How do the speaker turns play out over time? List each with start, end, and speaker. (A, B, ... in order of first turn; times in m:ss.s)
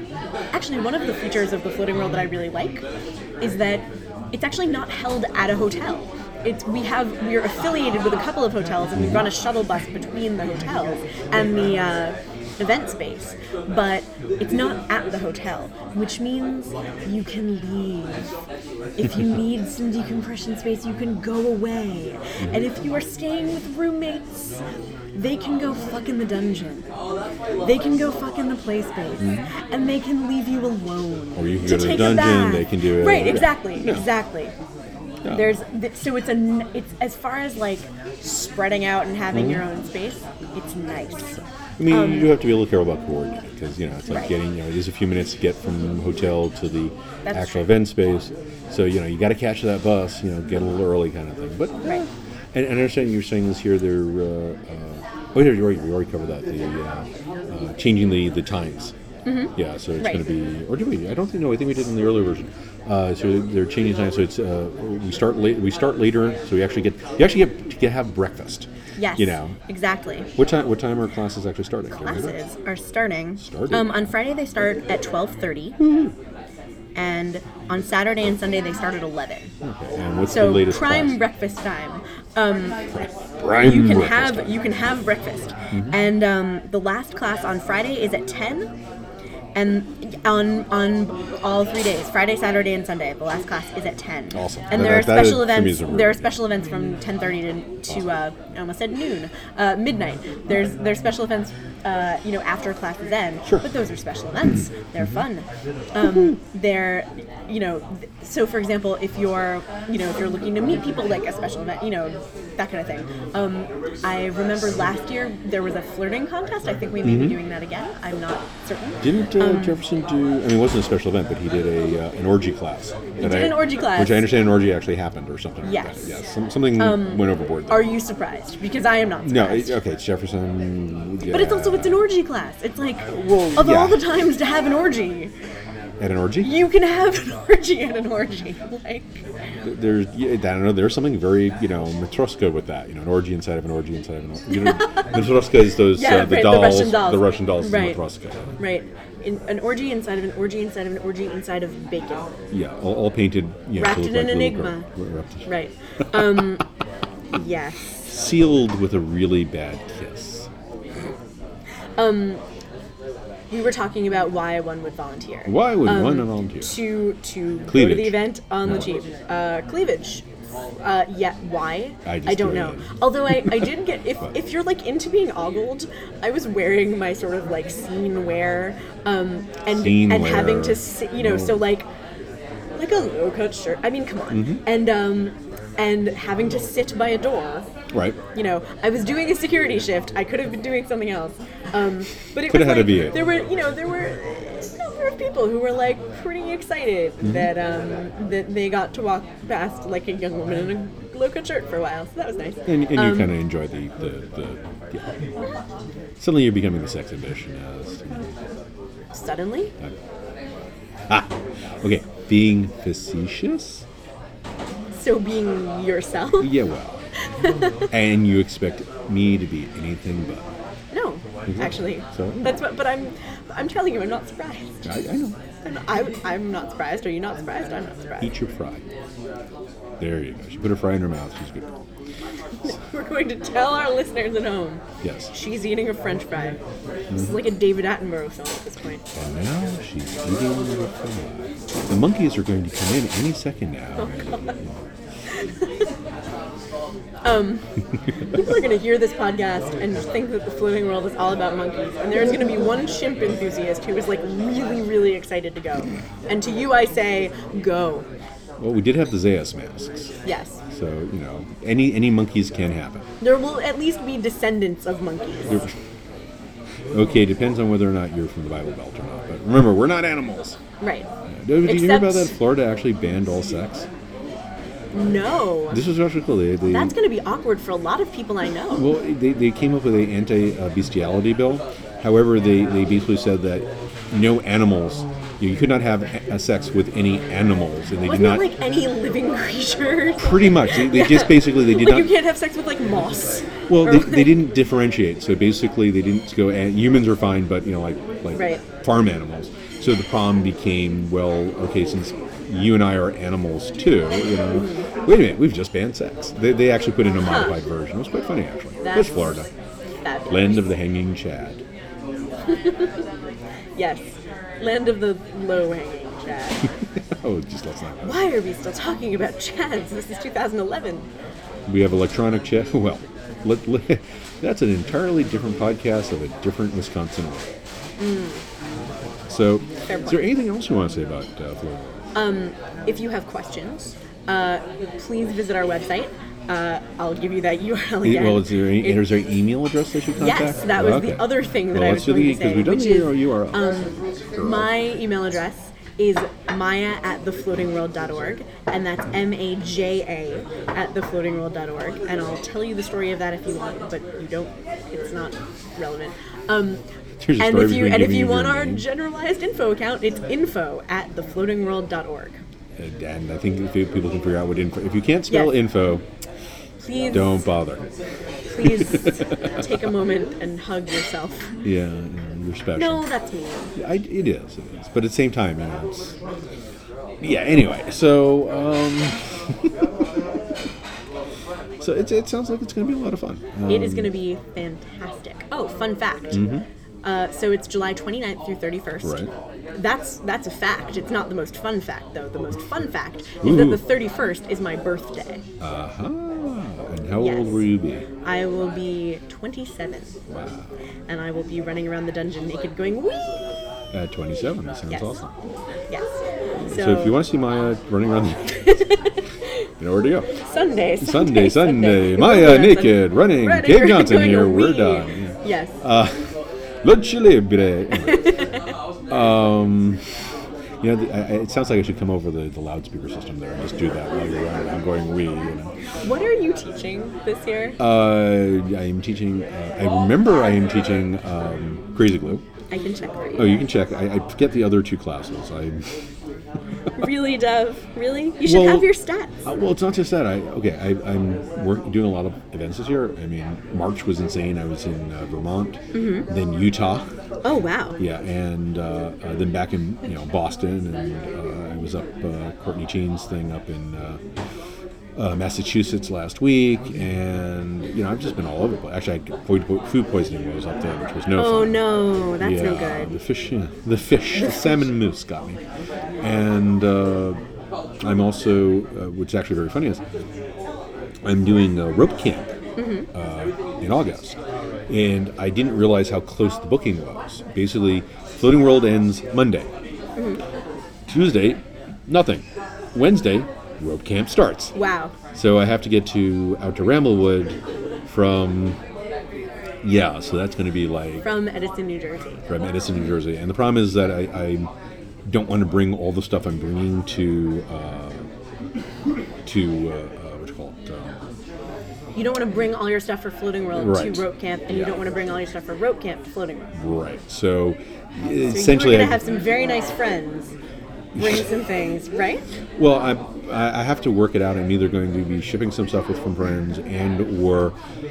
0:00.5-0:02.8 A
0:03.4-0:18.3 A
0:09.0-0:09.2 B
0:19.0-0:24.6 A
0:25.2-0:26.9 A
0:27.6-0:34.6 A
0:29.2-0:29.5 B
0:31.4-0:34.1 B
0:35.2-0:35.5 B
0:35.3-0:42.3 A
0:39.3-0:39.6 B
0:41.8-0:58.9 B
0:47.3-0:47.8 A
0:59.3-1:00.2 A
0:59.6-1:09.6 B
1:09.0-1:10.3 A
1:10.4-1:12.4 B
1:11.9-1:15.8 A
1:13.4-1:14.1 B
1:15.8-1:16.2 B
1:17.0-1:19.5 A
1:19.6-1:21.2 B
1:20.3-1:22.8 A
1:22.9-1:24.6 B
1:23.6-1:28.7 A
1:25.7-1:26.0 B
1:29.6-1:59.8 A
1:34.3-1:36.3 B
1:46.0-1:46.3 B
1:57.0-1:57.4 B
1:59.0-2:08.0 B
2:03.2-2:04.3 A
2:05.6-2:06.1 A
2:06.8-2:09.8 A
2:09.2-2:12.1 B
2:11.3-2:15.3 A
2:13.1-2:14.0 B
2:16.0-2:16.6 B
2:16.4-2:19.2 A
2:19.6-2:28.5 B
2:24.5-2:25.2 A
2:25.9-2:28.0 A
2:28.6-2:32.3 A
2:32.5-2:35.5 B
2:33.8-2:34.9 A
2:35.5-2:36.6 A
2:36.1-2:36.5 B
2:37.3-2:38.0 A
2:38.1-2:40.5 B
2:42.0-2:42.4 A
2:43.5-2:50.2 A
2:45.5-2:46.8 B
2:47.7-2:48.9 B
2:50.8-3:01.9 A
2:52.0-2:53.6 B
2:59.7-3:01.7 B
3:02.8-3:07.7 A
3:04.3-3:04.6 B
3:07.9-3:08.2 B
3:08.4-3:23.3 A
3:12.4-3:13.3 B
3:17.2-3:17.5 B
3:22.7-3:25.1 B
3:26.2-3:28.4 B
3:29.1-3:29.7 A
3:31.1-3:33.8 B
3:35.0-3:36.5 A
3:36.4-3:37.0 B
3:37.4-3:37.9 A
3:37.9-3:40.5 B
3:40.9-3:44.8 A
3:41.5-3:42.5 B
3:44.8-3:45.4 B
3:45.6-3:48.3 A
3:48.2-3:48.8 B
3:50.0-3:51.7 B
3:52.6-3:56.6 A
3:55.0-3:55.3 B
3:57.1-3:57.4 B
3:57.1-3:59.0 A
3:59.2-4:04.8 B
4:04.0-4:04.6 A
4:05.3-4:05.9 A
4:07.2-4:07.7 A
4:08.2-4:18.1 A
4:18.6-4:20.1 B
4:20.2-4:20.6 A
4:20.7-4:23.0 B
4:23.2-4:25.6 A
4:25.5-4:25.7 B
4:26.9-4:30.6 B
4:30.8-4:31.1 A
4:31.3-4:33.9 B
4:31.6-4:32.4 A
4:34.9-4:35.8 A
4:35.7-4:37.0 B
4:36.7-4:38.9 A
4:38.8-4:48.5 B
4:48.0-4:54.4 A
4:50.2-4:52.1 B
4:53.7-5:09.5 B
4:58.4-4:58.6 A
5:04.5-5:04.9 A
5:07.2-5:07.6 A
5:08.8-5:09.4 A
5:10.0-5:10.7 A
5:10.3-5:11.6 B
5:12.5-5:13.0 A
5:13.8-5:16.7 A
5:17.1-5:18.2 B
5:18.0-5:21.1 A
5:21.7-5:27.5 B
5:28.0-5:28.4 A
5:29.3-5:32.0 B
5:29.9-5:30.2 A
5:32.2-5:39.0 A
5:38.0-5:44.7 B
5:40.2-5:56.8 A
5:57.2-5:58.8 B
5:57.4-6:02.4 A
6:02.8-6:06.0 B
6:05.3-6:05.6 A
6:06.8-6:07.5 A
6:07.1-6:07.8 B
6:08.5-6:11.5 A
6:08.6-6:09.7 B
6:11.6-6:13.1 B
6:12.8-6:13.7 A
6:13.8-6:16.2 B
6:17.2-6:20.2 B
6:21.8-6:24.1 B
6:23.7-6:26.5 A
6:26.3-6:26.6 B
6:27.0-6:35.4 A
6:29.0-6:29.3 B
6:33.4-6:33.9 B
6:35.6-6:38.1 B
6:37.2-6:37.6 A
6:38.2-6:40.2 A
6:40.3-6:40.7 B
6:41.1-6:43.3 A
6:43.9-6:45.3 B
6:44.9-6:45.2 A
6:46.6-6:48.8 B
6:46.6-6:47.2 A
6:48.6-6:49.2 A
6:49.8-6:50.3 B
6:50.4-6:55.8 A
6:51.0-6:56.2 B
6:56.8-6:58.5 B
6:58.0-6:58.7 A
6:59.1-7:00.0 B
7:00.8-7:05.7 B
7:06.0-7:07.8 A
7:07.8-7:12.4 B
7:12.7-7:13.7 A
7:13.4-7:15.9 B
7:17.0-7:19.3 A
7:18.4-7:18.9 B
7:19.4-7:27.1 B
7:25.9-7:26.3 A
7:27.4-7:28.0 A
7:28.0-7:34.2 B
7:35.2-7:45.6 B
7:41.4-7:43.2 A
7:46.2-7:47.4 B
7:48.0-7:50.0 B
7:51.2-7:52.5 B
7:52.8-7:53.1 A
7:53.1-7:59.7 B
8:00.2-8:00.4 A
8:01.1-8:04.7 B
8:04.8-8:05.1 A
8:05.3-8:08.8 B
8:09.8-8:11.4 B
8:11.2-8:12.5 A
8:12.5-8:14.7 B
8:15.3-8:18.2 B
8:19.4-8:21.2 B
8:22.2-8:26.7 A
8:23.8-8:25.0 B
8:26.7-8:29.2 B
8:28.4-8:30.5 A
8:31.2-8:31.4 B
8:31.2-8:32.4 A
8:32.8-8:37.8 B